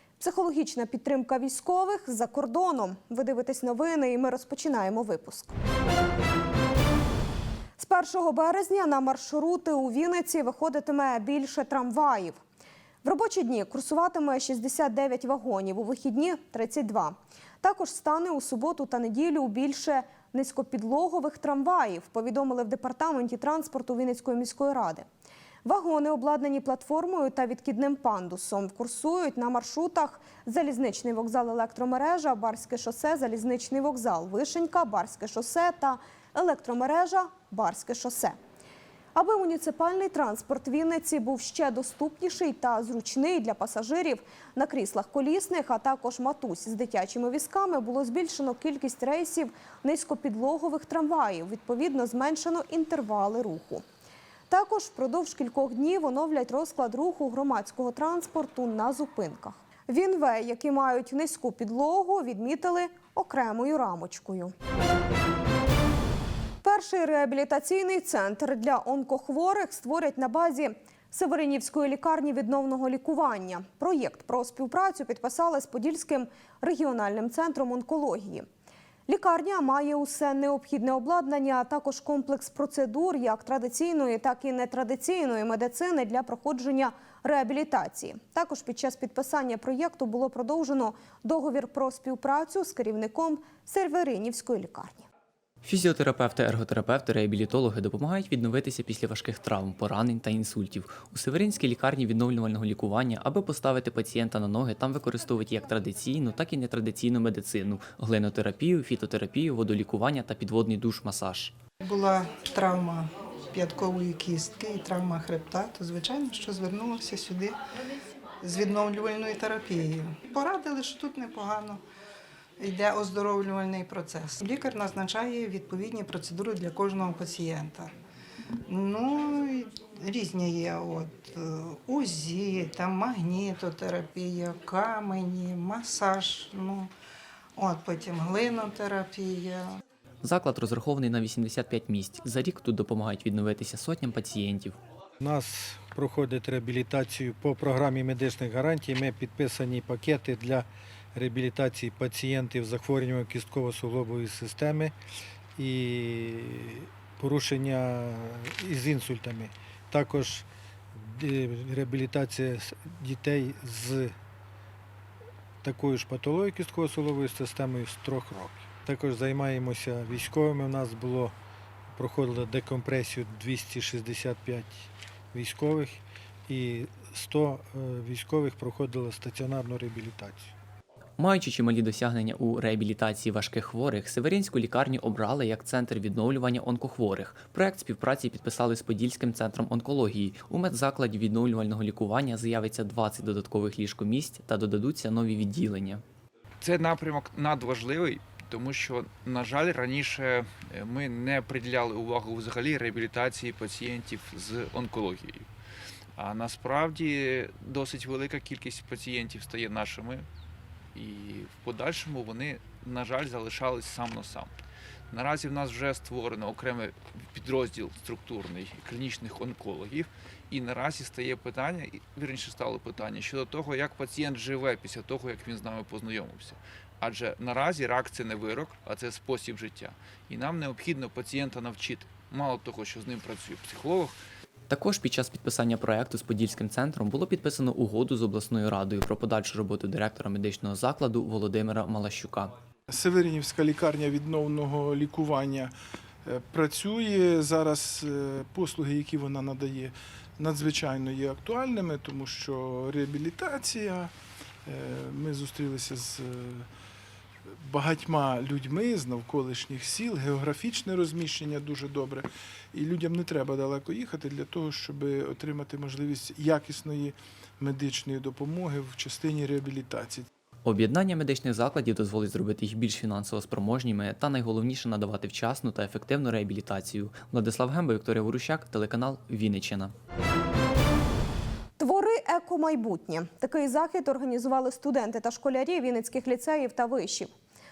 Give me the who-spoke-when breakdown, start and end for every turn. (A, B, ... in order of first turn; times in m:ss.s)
0:00.2-0:05.6 A
0:07.8-0:12.4 A
0:13.0-0:25.1 A
0:25.6-0:38.4 A
0:39.2-0:53.8 A
0:54.5-1:04.5 A
1:06.6-1:18.5 A
1:19.1-1:35.1 A
1:35.6-1:51.5 B
1:51.8-1:57.6 C
1:58.4-2:01.8 C
2:02.6-2:07.9 C
2:08.7-2:16.9 C
2:17.6-2:19.7 C
2:20.2-2:24.8 B
2:25.2-2:35.0 D
2:35.6-2:44.2 D
2:45.6-2:51.4 D
2:51.9-3:00.5 D
3:01.2-3:16.0 B
3:16.6-3:25.5 E
3:26.2-3:30.3 E
3:30.9-3:34.5 E
3:35.1-3:54.2 E
3:54.7-4:02.5 B
4:02.9-4:05.7 F
4:06.2-4:14.1 F
4:14.6-4:16.7 F
4:17.6-4:30.3 F
4:30.6-4:39.9 B
4:41.8-4:47.3 A